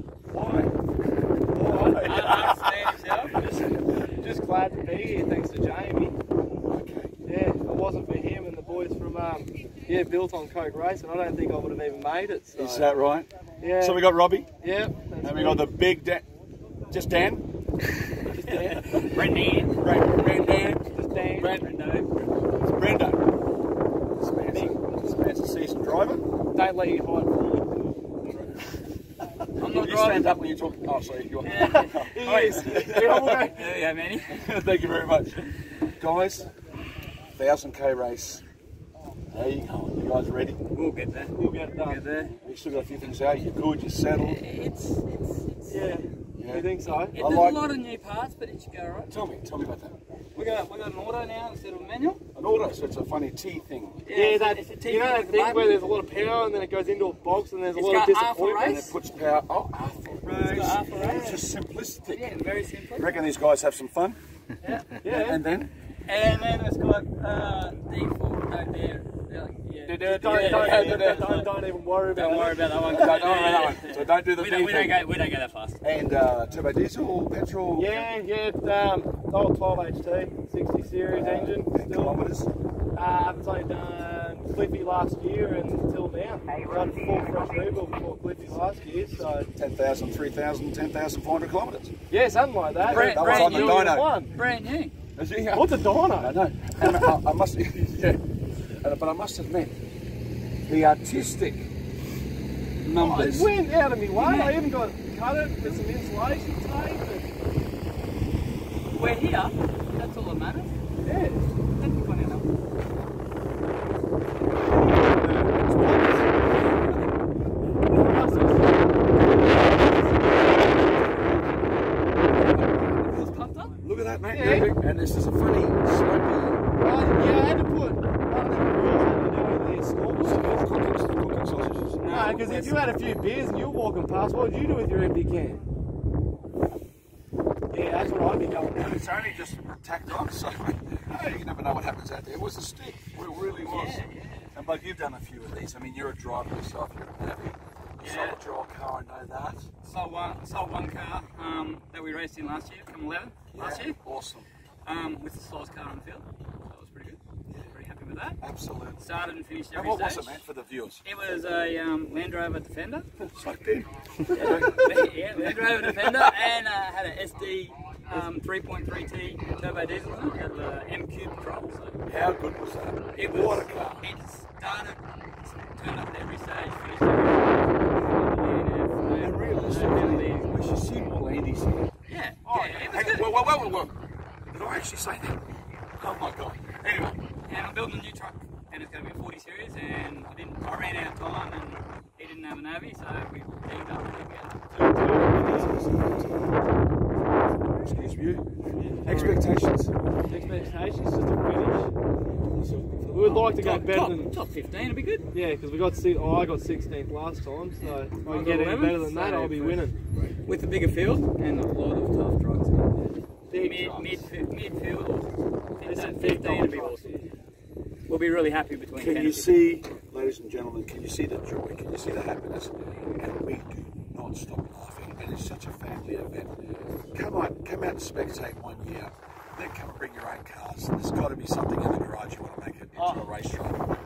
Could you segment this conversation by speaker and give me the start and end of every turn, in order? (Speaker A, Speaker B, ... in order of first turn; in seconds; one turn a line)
Speaker A: 0.3-0.7
Speaker A: 1.5-3.8
Speaker B: 1.6-2.1
Speaker C: 1.7-3.6
Speaker B: 4.0-6.2
Speaker A: 6.7-7.1
Speaker B: 7.2-12.9
Speaker A: 12.6-13.3
Speaker B: 13.6-14.1
Speaker A: 13.8-14.5
Speaker B: 14.6-15.7
Speaker A: 15.2-16.2
Speaker A: 16.9-17.4
Speaker B: 18.2-19.1
Speaker C: 18.3-19.9
Speaker A: 18.8-20.9
Speaker B: 20.9-21.6
Speaker C: 21.1-22.1
Speaker A: 22.4-23.2
Speaker A: 24.1-26.2
Speaker B: 26.5-27.6
Speaker C: 29.6-30.4
Speaker A: 29.6-33.5
Speaker C: 31.4-34.5
Speaker B: 31.6-33.7
Speaker A: 34.3-36.5
Speaker A: 37.4-38.4
Speaker A: 39.3-40.6
Speaker C: 40.7-42.3
Speaker B: 41.3-42.0
Speaker A: 42.3-44.4
Speaker C: 44.2-45.7
Speaker B: 45.7-47.2
Speaker A: 46.4-47.6
Speaker C: 47.1-49.1
Speaker A: 49.1-49.9
Speaker C: 50.3-52.2
Speaker A: 52.3-54.0
Speaker C: 54.0-55.8
Speaker B: 54.1-58.9
Speaker C: 57.8-58.9
Speaker A: 58.6-62.3
Speaker C: 60.2-61.4
Speaker B: 60.3-61.4
Speaker C: 62.1-63.2
Speaker A: 63.0-64.2
Speaker B: 64.6-65.4
Speaker A: 65.0-65.7
Speaker C: 66.0-71.5
Speaker B: 69.8-73.2
Speaker A: 70.0-71.3
Speaker C: 72.1-75.8
Speaker A: 72.7-75.1
Speaker A: 75.8-78.1
Speaker B: 77.7-82.2
Speaker A: 81.0-82.5
Speaker B: 82.9-89.5
Speaker A: 89.5-91.9
Speaker B: 92.1-94.3
Speaker C: 92.8-94.9
Speaker A: 92.8-94.2
Speaker A: 95.2-99.7
Speaker B: 95.5-96.3
Speaker A: 100.7-101.7
Speaker A: 102.8-103.5
Speaker B: 102.9-107.3
Speaker C: 104.1-104.6
Speaker C: 108.9-110.7
Speaker B: 111.0-111.5
Speaker C: 111.8-112.5
Speaker A: 114.6-117.1
Speaker B: 114.7-116.2
Speaker B: 117.8-119.8
Speaker C: 118.0-118.7
Speaker C: 119.5-120.4
Speaker A: 122.2-123.2
Speaker C: 122.8-123.7
Speaker A: 123.8-126.6
Speaker B: 124.3-124.7
Speaker B: 126.8-130.7
Speaker A: 130.1-132.1
Speaker C: 132.0-132.8
Speaker B: 132.1-135.6
Speaker B: 137.7-139.0
Speaker A: 138.7-149.7
Speaker C: 143.5-144.5
Speaker C: 148.0-148.4
Speaker C: 149.8-154.0
Speaker A: 153.5-154.5
Speaker C: 154.8-158.4
Speaker A: 158.4-159.1
Speaker C: 159.0-160.4
Speaker A: 159.7-161.0
Speaker C: 161.0-163.1
Speaker A: 163.2-166.5
Speaker C: 164.3-172.0
Speaker A: 172.1-174.0
Speaker C: 173.1-175.0
Speaker C: 175.6-180.6
Speaker A: 179.2-181.9
Speaker C: 182.1-183.8
Speaker B: 182.4-183.1
Speaker A: 182.8-183.9
Speaker A: 184.5-185.4
Speaker A: 186.0-187.2
Speaker C: 187.4-194.6
Speaker B: 194.7-195.7
Speaker A: 195.3-196.5
Speaker A: 197.8-198.4
Speaker C: 199.0-199.4
Speaker A: 199.0-199.9
Speaker B: 200.3-201.9
Speaker A: 202.4-203.5
Speaker B: 203.1-204.3
Speaker C: 203.3-205.3
Speaker B: 205.3-209.9
Speaker C: 208.1-209.8
Speaker A: 210.1-210.3
Speaker C: 210.4-212.9
Speaker B: 213.5-214.2
Speaker C: 213.5-217.1
Speaker B: 215.8-217.3
Speaker C: 218.1-219.7
Speaker A: 218.9-226.5
Speaker A: 227.1-233.8
Speaker B: 232.9-233.3